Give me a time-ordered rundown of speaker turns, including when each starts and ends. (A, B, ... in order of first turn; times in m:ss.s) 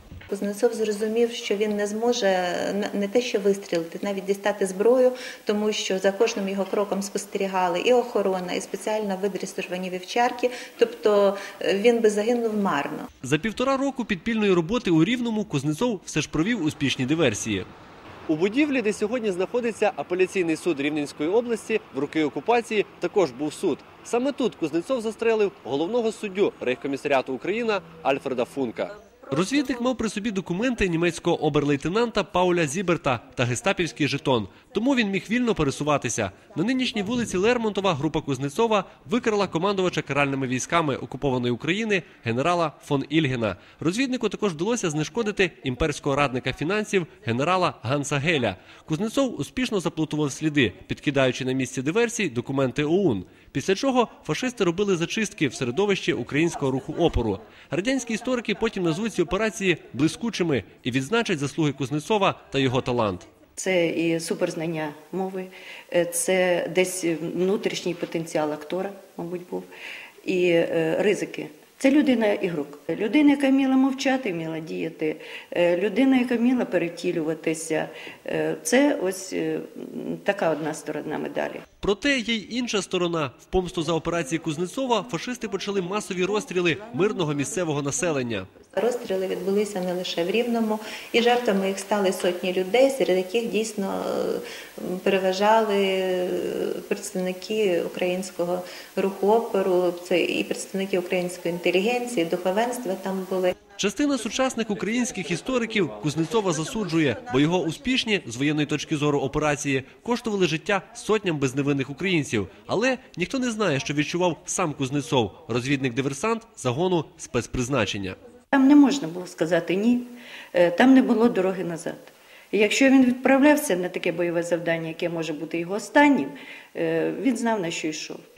0:00.3-0:13.1 A
0:13.2-0:17.7 B
0:18.3-1:03.2 B
1:03.6-1:09.7 C
1:10.2-1:21.6 C
1:21.8-1:28.5 B
1:28.8-1:43.5 A
1:43.8-1:58.2 B
1:58.5-2:08.2 C